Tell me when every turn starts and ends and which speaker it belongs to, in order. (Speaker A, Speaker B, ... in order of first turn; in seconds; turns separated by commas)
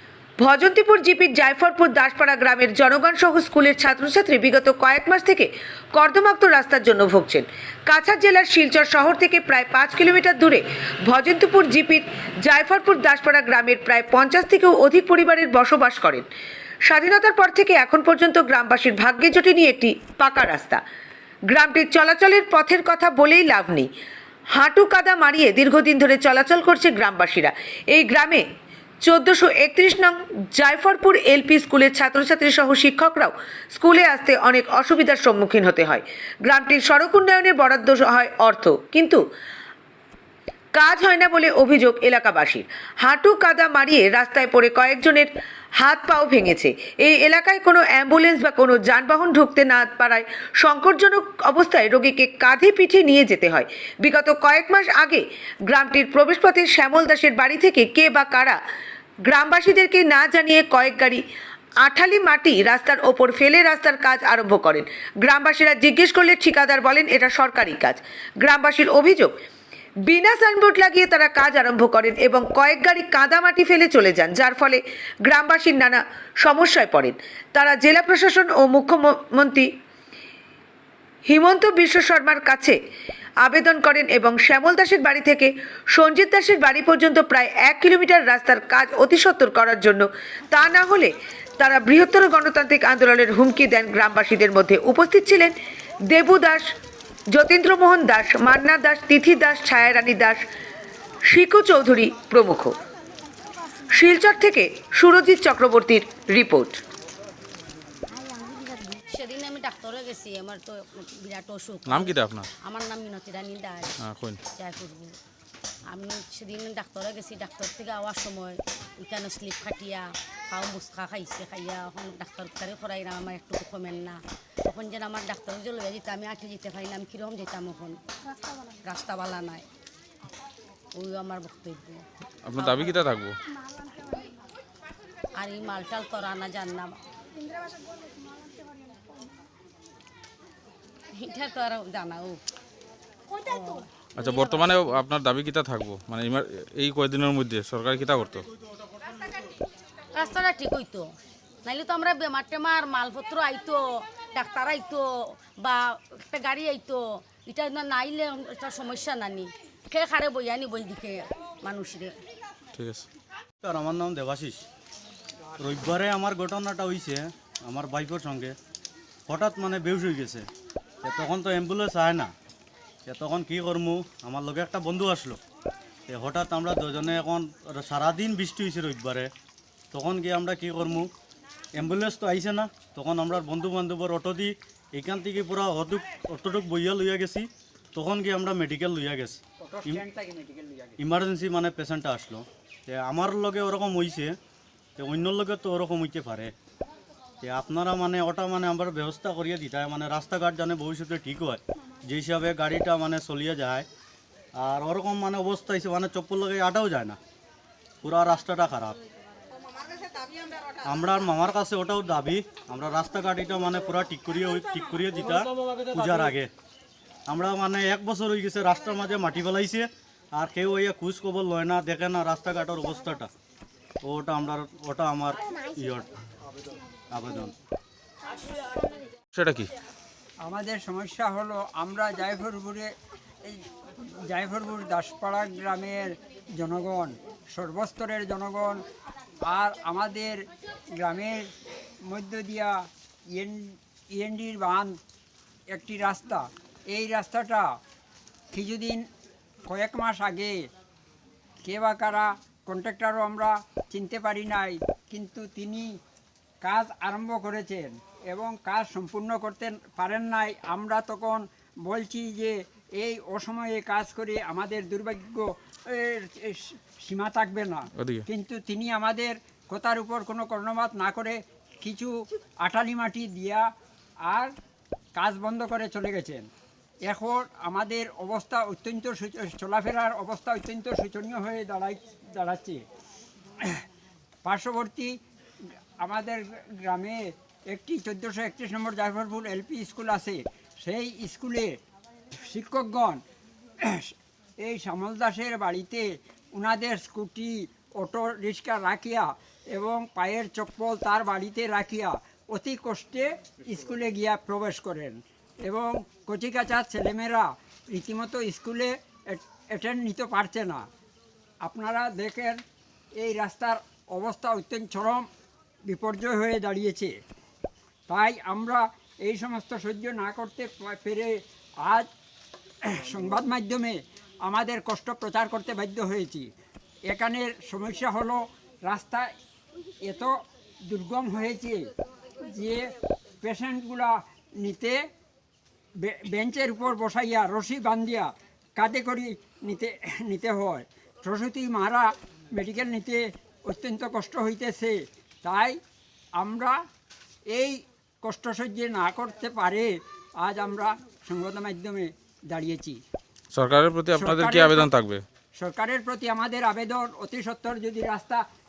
Speaker A: 0.4-16.2, Speaker A: 16.9-20.8, Speaker A: 21.5-23.9, Speaker A: 24.5-28.4, Speaker A: 29.0-39.2, Speaker A: 40.7-58.6, Speaker A: 59.2-61.2, Speaker A: 61.8-69.3, Speaker A: 70.1-79.7, Speaker A: 81.2-82.8, Speaker A: 83.4-95.5, Speaker A: 96.1-96.7, Speaker A: 97.3-100.4, Speaker A: 101.3-102.8, Speaker A: 103.9-106.8, Speaker B: 108.3-115.2, Speaker C: 111.9-112.5, Speaker C: 114.0-114.4, Speaker B: 115.9-128.0, Speaker B: 128.5-129.6, Speaker B: 130.9-132.0, Speaker C: 132.4-133.4, Speaker B: 132.5-133.0, Speaker B: 135.4-136.9, Speaker B: 141.2-142.4, Speaker B: 143.4-145.0, Speaker C: 144.2-148.5, Speaker B: 150.1-151.1, Speaker B: 151.6-162.1, Speaker C: 162.8-163.1, Speaker D: 163.6-164.6, Speaker D: 165.6-168.6, Speaker D: 169.3-170.5, Speaker D: 171.0-172.3, Speaker D: 173.1-175.4, Speaker D: 176.1-179.3, Speaker D: 179.9-181.1, Speaker D: 181.7-190.0, Speaker E: 189.6-191.0, Speaker D: 191.0-194.3, Speaker D: 195.0-196.5, Speaker D: 197.4-203.9, Speaker D: 204.6-207.2, Speaker D: 208.0-209.0, Speaker D: 210.8-216.5, Speaker D: 217.3-223.3, Speaker D: 224.0-226.1, Speaker D: 227.1-227.5, Speaker C: 229.3-229.7, Speaker E: 230.4-232.9, Speaker E: 233.4-238.8, Speaker E: 239.4-241.5, Speaker E: 242.0-245.0, Speaker E: 245.7-247.7, Speaker E: 248.5-249.1, Speaker E: 249.7-250.7, Speaker E: 251.6-255.9, Speaker E: 256.6-273.7, Speaker C: 268.0-268.2, Speaker E: 274.2-274.5, Speaker E: 275.1-276.5, Speaker E: 277.0-282.8, Speaker E: 284.4-285.2, Speaker E: 286.0-291.8, Speaker E: 292.3-293.2, Speaker E: 293.8-310.9, Speaker E: 311.6-312.6, Speaker E: 313.1-315.3, Speaker E: 315.9-317.1, Speaker E: 318.1-322.1, Speaker E: 322.8-326.5, Speaker E: 327.1-329.3, Speaker E: 330.0-331.9, Speaker E: 332.4-335.0, Speaker E: 335.9-345.8, Speaker E: 346.3-346.8, Speaker E: 347.5-353.0, Speaker C: 353.5-355.2, Speaker E: 354.1-354.9, Speaker E: 355.5-358.4